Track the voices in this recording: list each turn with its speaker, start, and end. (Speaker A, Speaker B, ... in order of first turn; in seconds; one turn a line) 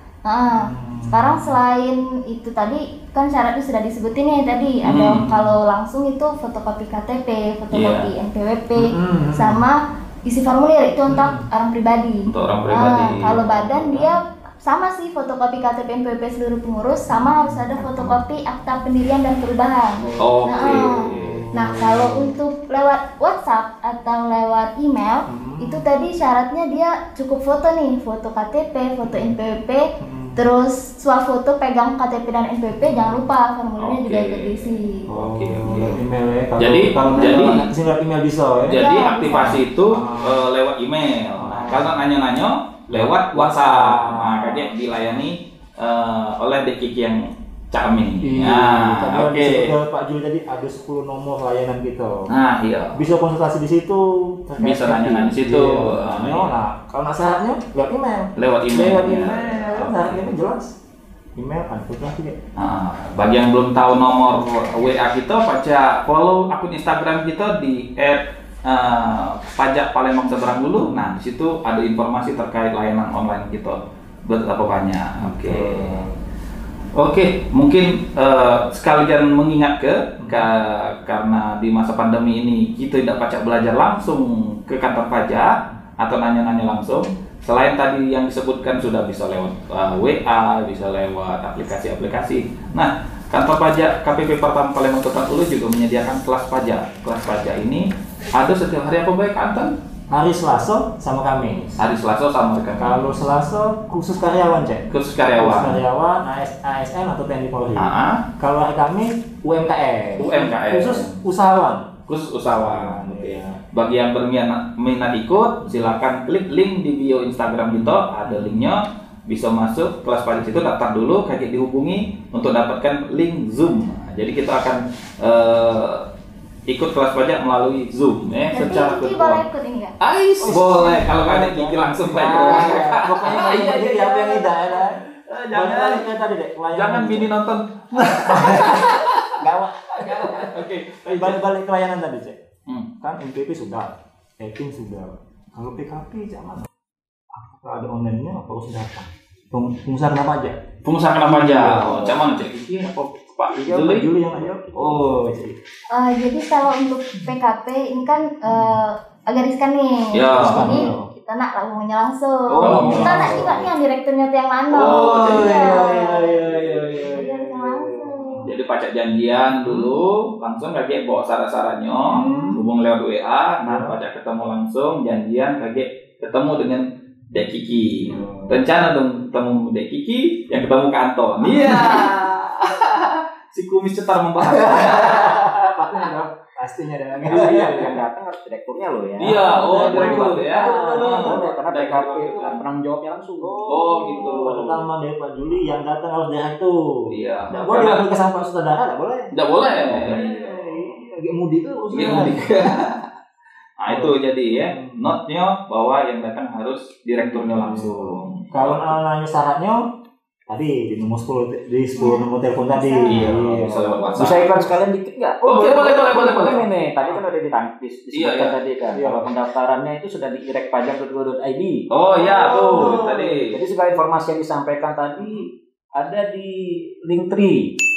Speaker A: 0.3-29.8
Speaker B: 0.5-1.6
Speaker C: 4.8-5.2
Speaker B: 5.1-5.5
Speaker C: 7.7-8.1
Speaker B: 8.8-9.7
Speaker B: 11.1-11.4
Speaker C: 12.3-14.0
Speaker D: 17.8-18.2
Speaker C: 20.2-21.4
Speaker B: 21.1-22.4
Speaker B: 25.3-25.9
Speaker B: 29.1-29.4
Speaker B: 30.0-30.5
Speaker A: 30.4-35.1
Speaker B: 32.7-33.3
Speaker C: 33.8-34.6
Speaker B: 35.1-38.8
Speaker C: 35.1-36.0
Speaker C: 36.6-37.6
Speaker C: 38.6-49.7
Speaker A: 38.7-39.6
Speaker B: 39.9-40.4
Speaker B: 41.4-42.0
Speaker B: 42.9-45.2
Speaker B: 48.2-52.3
Speaker C: 52.3-53.0
Speaker B: 52.9-60.8
Speaker C: 54.6-56.6
Speaker C: 58.4-60.4
Speaker B: 61.4-62.4
Speaker C: 62.6-76.0
Speaker B: 70.8-71.1
Speaker B: 75.2-76.1
Speaker C: 77.0-99.7
Speaker B: 80.2-80.5
Speaker B: 100.1-101.9
Speaker C: 101.8-103.2
Speaker B: 102.8-111.9
Speaker C: 104.9-105.8
Speaker C: 107.8-108.2
Speaker C: 110.2-111.2
Speaker C: 112.1-126.1
Speaker B: 112.5-113.6
Speaker B: 117.7-118.7
Speaker C: 126.7-129.4
Speaker A: 128.5-129.9
Speaker C: 130.0-136.1
Speaker B: 130.4-137.4
Speaker C: 136.7-139.3
Speaker B: 138.0-142.4
Speaker C: 140.0-141.4
Speaker B: 143.0-146.7
Speaker B: 147.3-150.6
Speaker C: 150.8-154.1
Speaker B: 151.2-152.2
Speaker B: 153.5-155.6
Speaker C: 154.7-155.1
Speaker A: 155.9-168.5
Speaker B: 158.5-158.8
Speaker C: 160.1-160.9
Speaker B: 160.3-161.1
Speaker B: 162.5-163.7
Speaker C: 162.6-163.7
Speaker C: 164.7-166.0
Speaker B: 164.7-168.5
Speaker C: 168.4-186.1
Speaker B: 169.5-169.9
Speaker A: 172.1-172.6
Speaker B: 172.1-172.6
Speaker B: 173.6-174.0
Speaker B: 178.1-178.7
Speaker B: 181.4-182.2
Speaker B: 184.4-188.0
Speaker D: 187.2-193.6
Speaker C: 189.2-192.6
Speaker B: 189.2-191.5
Speaker B: 193.4-202.7
Speaker C: 193.6-194.9
Speaker C: 197.1-198.1
Speaker C: 199.3-201.0
Speaker C: 201.9-203.1
Speaker C: 203.8-209.0
Speaker B: 203.9-205.2
Speaker B: 207.3-209.8
Speaker B: 210.5-214.4
Speaker A: 212.0-213.4
Speaker C: 213.1-214.7
Speaker D: 214.2-221.9
Speaker C: 215.4-216.7
Speaker C: 218.1-218.6
Speaker B: 218.9-219.3
Speaker C: 221.9-223.6
Speaker B: 222.2-223.3
Speaker D: 222.7-227.8